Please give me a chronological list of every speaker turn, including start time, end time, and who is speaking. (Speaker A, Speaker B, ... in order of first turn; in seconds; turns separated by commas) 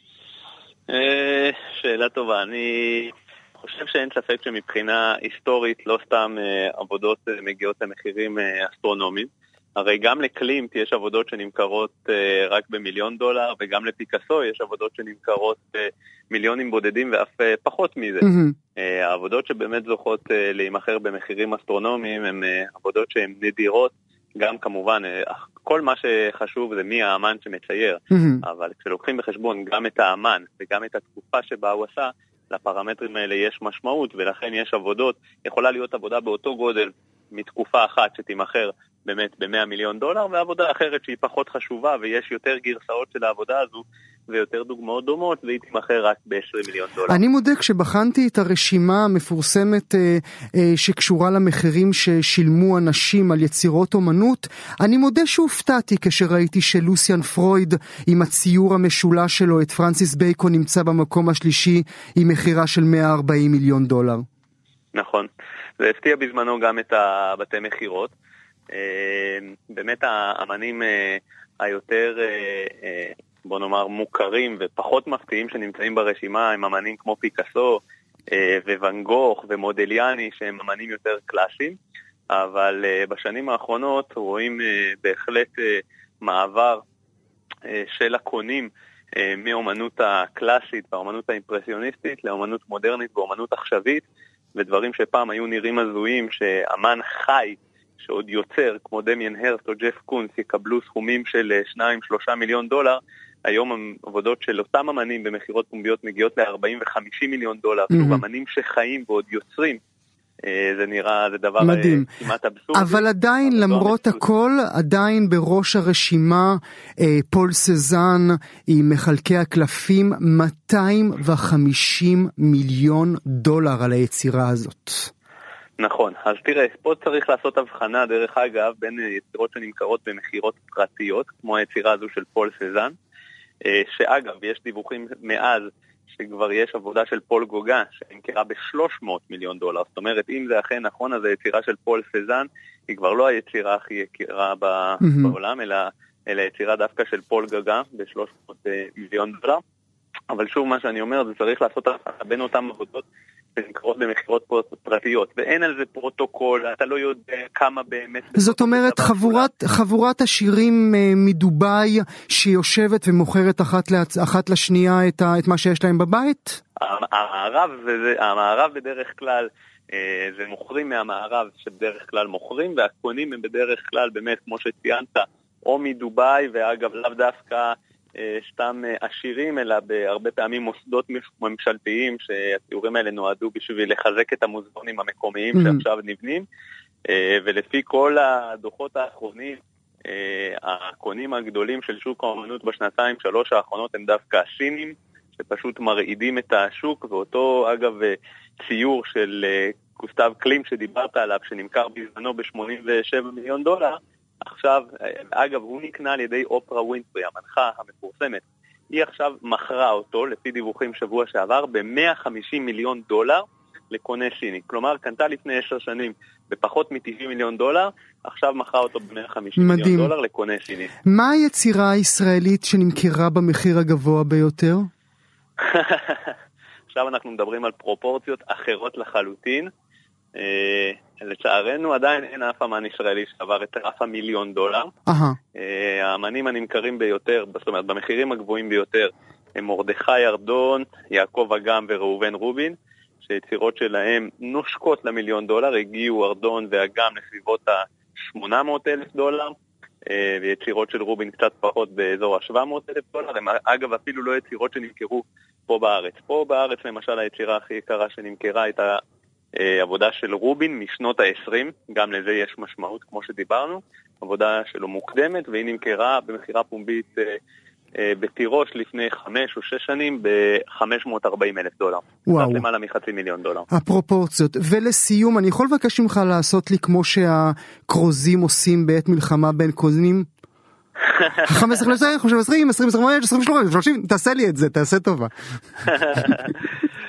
Speaker A: 0.9-47.2, Speaker B: 18.2-18.5, Speaker B: 28.1-28.4, Speaker B: 47.1-64.2, Speaker A: 64.9-68.1, Speaker A: 68.7-81.8, Speaker A: 82.3-86.8, Speaker A: 87.7-109.8, Speaker B: 107.9-108.2, Speaker A: 110.4-114.2, Speaker B: 111.6-112.1, Speaker B: 112.7-125.1, Speaker A: 125.8-132.9, Speaker A: 133.6-149.6, Speaker B: 145.0-145.3, Speaker A: 150.3-153.0, Speaker A: 153.6-159.5, Speaker B: 158.3-166.6, Speaker A: 166.8-186.4, Speaker B: 185.5-185.8, Speaker A: 187.1-220.9, Speaker B: 219.6-220.1, Speaker B: 221.0-224.9, Speaker A: 225.6-226.3, Speaker A: 226.9-229.7, Speaker A: 230.3-234.9, Speaker B: 235.1-235.4, Speaker A: 235.5-249.5, Speaker A: 250.1-259.0, Speaker A: 259.6-267.4, Speaker A: 267.9-273.6, Speaker B: 272.3-272.6, Speaker B: 273.7-280.3, Speaker A: 281.1-281.5, Speaker B: 281.4-285.3, Speaker A: 285.8-286.7